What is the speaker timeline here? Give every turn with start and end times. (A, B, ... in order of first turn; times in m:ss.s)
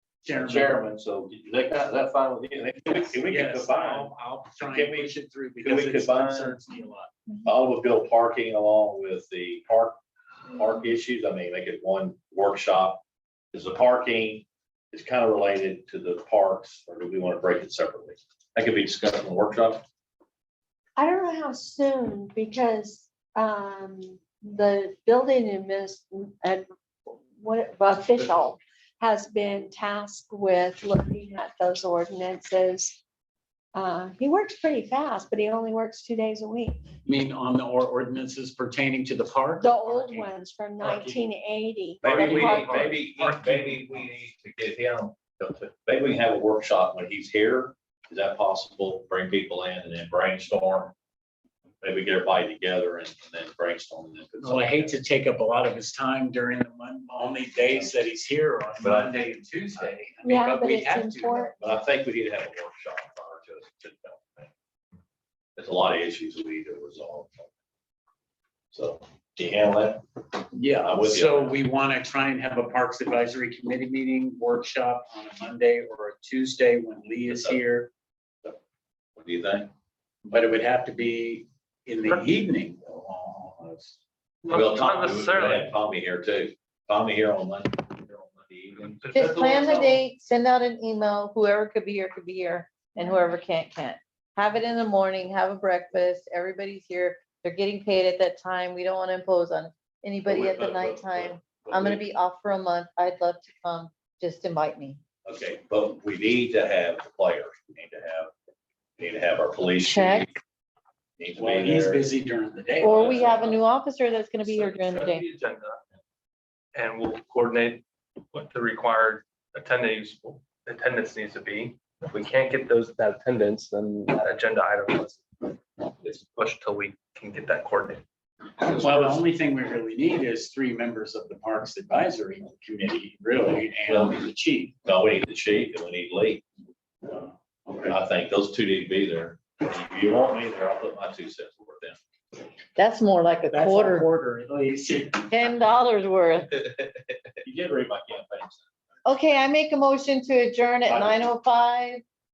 0:00.2-0:00.8 A
0:00.3-0:06.6 B
0:03.0-0:07.1 A
0:07.4-0:10.0 B
0:10.5-0:13.0 B
0:13.5-0:19.8 B
0:21.0-0:33.0 C
0:33.7-0:36.9 C
0:37.0-0:41.3 A
0:39.6-0:42.9 C
0:42.0-0:50.9 B
0:42.0-0:44.1 A
0:51.8-0:55.0 B
0:54.4-1:01.5 A
0:57.6-0:57.9 B
0:58.8-0:59.2 B
1:00.2-1:01.6 C
1:01.6-1:04.5 B
1:05.6-1:07.5 B
1:08.7-1:10.0 B
1:10.5-1:17.9 A
1:10.7-1:11.6 B
1:17.3-1:17.6 B
1:19.2-1:19.7 B
1:20.2-1:23.9 A
1:24.4-1:25.7 D
1:24.5-1:29.0 B
1:29.0-1:30.0 D
1:29.1-1:45.0 E
1:40.2-1:42.0 B
1:45.2-1:48.3 B
1:49.0-1:50.3 B
1:49.8-1:50.3 E
1:51.2-1:52.0 B
1:51.4-1:53.6 A
1:52.8-1:55.2 E
1:54.4-1:55.8 D
1:56.7-2:08.0 D
2:08.6-2:09.2 D
2:08.7-2:14.7 A
2:13.9-2:14.2 B
2:14.8-2:16.4 B
2:17.8-2:22.0 B
2:22.8-2:24.1 E
2:23.5-2:25.3 A
2:25.3-2:26.6 E
2:27.4-2:28.7 B
2:29.0-2:32.0 E
2:30.9-2:31.3 B